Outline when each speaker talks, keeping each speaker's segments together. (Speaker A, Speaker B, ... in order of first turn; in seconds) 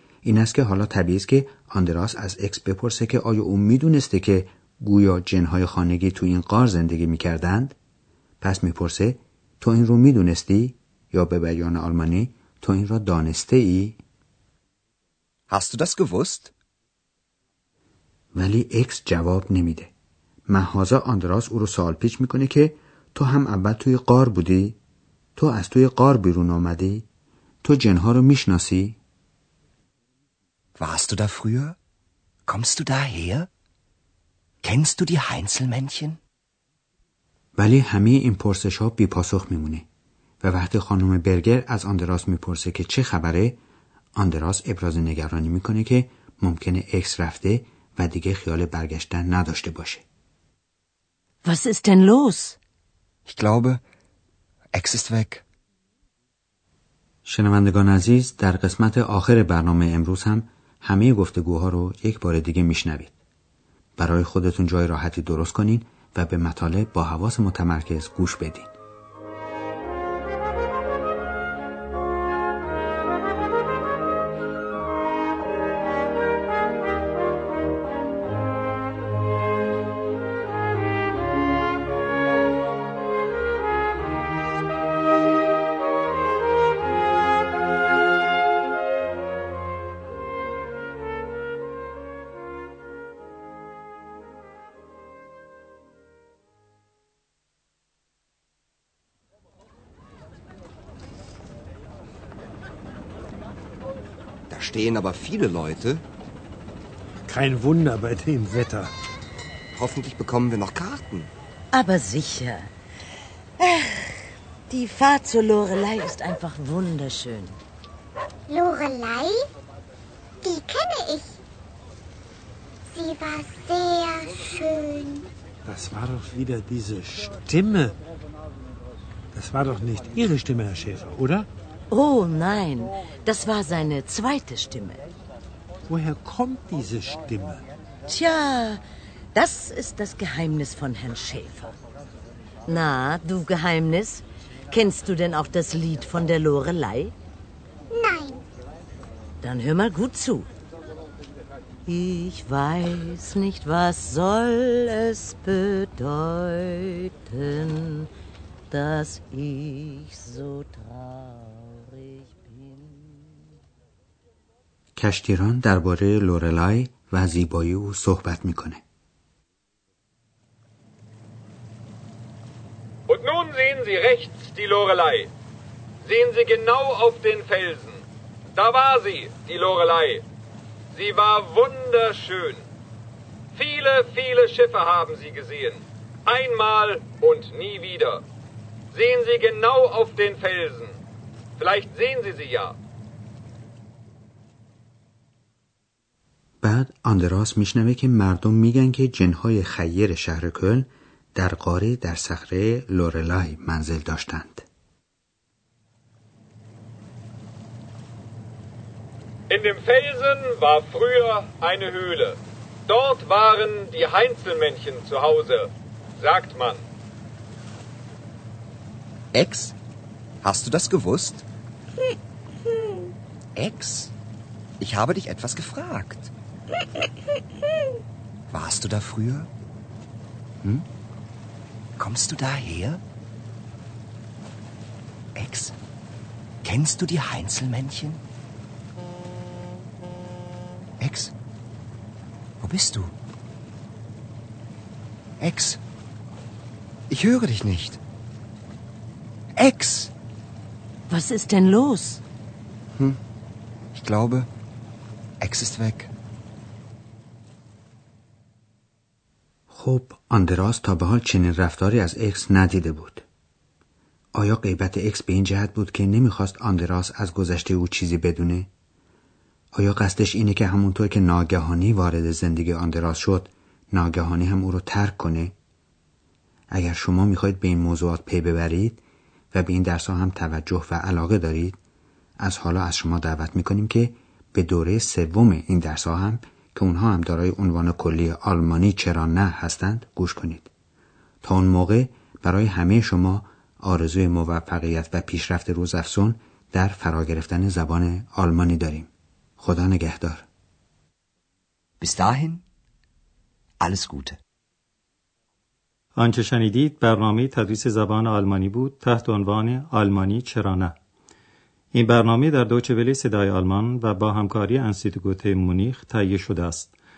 Speaker A: 0.2-7.8, 8.4-14.0, 18.3-19.9, 20.5-24.8, 25.4-27.1, 27.6-29.0, 37.6-39.9, 40.4-43.6, 44.1-50.0, 57.2-63.1, 64.0-68.7, 164.9-168.8, 196.6-204.6, 259.7-263.2, 264.3-268.7, 269.7-275.5, 276.7-279.0, 279.5-281.8, 282.4-290.7, 291.4-300.4
Speaker B: 15.5-16.5, 30.8-31.8, 32.5-33.5, 34.6-36.2, 53.3-53.8, 54.7-55.4, 104.5-106.0, 109.8-111.3, 219.3-219.8, 220.4-221.4, 223.6-224.1, 224.8-226.3, 228.5-229.5, 232.0-233.0, 235.3-235.7, 236.6-238.2, 241.0-241.3, 242.6-243.1, 245.4-245.8, 247.1-248.0, 249.6-250.1, 253.9-254.5, 255.4-256.1, 302.0-302.6, 303.8-304.4
Speaker C: 51.4-52.6, 111.7-112.7, 113.6-117.6, 131.9-135.0, 138.1-138.8, 139.3-141.8, 142.7-147.1, 149.4-150.5, 151.8-158.1, 158.7-163.3, 251.1-252.2
Speaker D: 107.2-108.9, 125.6-128.0, 129.3-131.5, 135.9-137.7
Speaker E: 118.5-119.5, 120.4-121.4, 122.9-125.3, 147.9-148.4
Speaker F: 173.1-175.3, 176.0-178.0, 178.6-180.2, 180.9-182.6, 183.5-188.2, 188.9-191.0, 191.6-192.8, 209.5-212.4, 212.9-215.7, 216.2-216.8
Speaker G: 306.1-310.9, 311.9-316.9